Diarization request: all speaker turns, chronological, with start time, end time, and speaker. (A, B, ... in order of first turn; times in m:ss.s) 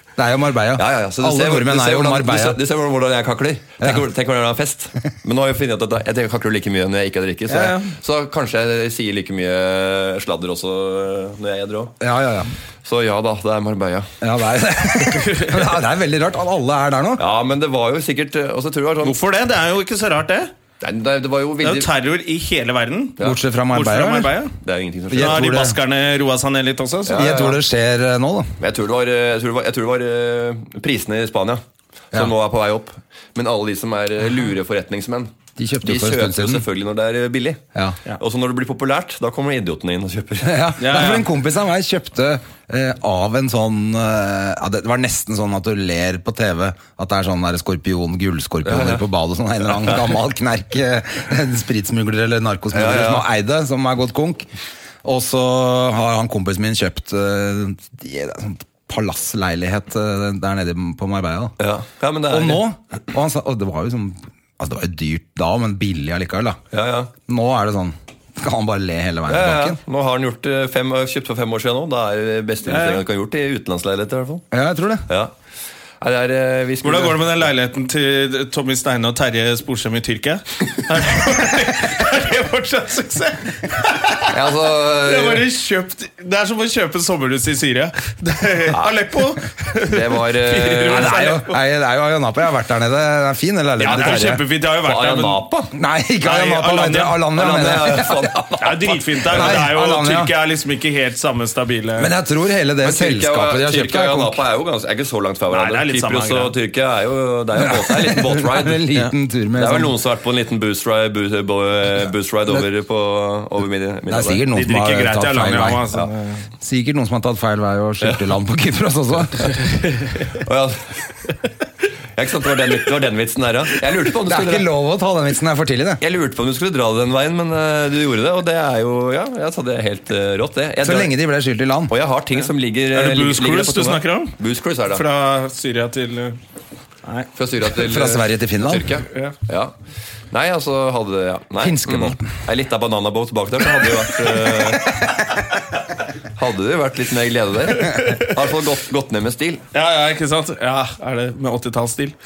0:00.2-0:02.6 A
0:00.8-0:12.0 B
0:07.5-0:07.9 C
0:12.0-0:12.5 A
0:12.8-0:14.1 B
0:14.2-0:17.2 A
0:17.2-0:19.2 B
0:19.0-0:20.5 C
0:20.8-0:21.9 B
0:21.6-0:23.2 C
0:23.2-0:24.4 A
0:23.7-0:24.5 C
0:24.6-0:25.5 B
0:25.1-0:25.8 A
0:25.2-0:27.3 C
0:27.1-0:27.6 B
0:27.1-0:28.5 A
0:28.6-0:37.6 B
0:35.6-0:36.6 A
0:38.2-0:40.8 B
0:40.4-0:54.5 A
0:40.8-0:41.3 C
0:48.6-0:49.0 B
0:52.7-0:53.3 B
0:55.0-1:01.6 A
1:01.6-1:02.6 B
1:02.3-1:06.6 A
1:06.7-1:07.1 B
1:07.3-1:09.8 A
1:09.3-1:14.4 B
1:12.7-1:13.0 C
1:14.5-1:15.1 A
1:15.1-1:15.3 B
1:16.0-1:17.3 B
1:16.8-1:24.4 C
1:24.3-1:25.4 B
1:25.0-1:31.6 C
1:28.7-1:29.0 B
1:29.9-1:31.3 B
1:30.9-1:34.4 A
1:33.8-1:35.4 C
1:33.8-1:35.7 B
1:35.8-1:38.7 A
1:36.2-1:37.2 C
1:37.3-1:39.6 B
1:38.6-1:42.1 C
1:39.3-1:40.3 A
1:42.0-1:44.4 A
1:42.8-1:48.9 B
1:45.5-1:46.6 C
1:47.6-1:50.0 A
1:49.6-1:54.5 B
1:54.1-1:55.9 A
1:54.5-1:56.4 C
1:56.6-1:59.5 A
1:58.0-1:58.3 B
1:59.9-2:00.2 C
2:00.3-2:01.2 B
2:02.2-2:04.7 B
2:04.3-2:06.0 A
2:06.0-2:11.1 B
2:10.8-2:11.9 A
2:11.9-2:15.1 B
2:12.9-2:14.4 C
2:14.9-2:16.4 C
2:17.4-2:19.7 B
2:17.8-2:18.9 A
2:20.3-2:25.0 B
2:21.6-2:22.3 A
2:26.4-2:29.6 B
2:27.8-2:28.3 C
2:29.7-2:32.2 C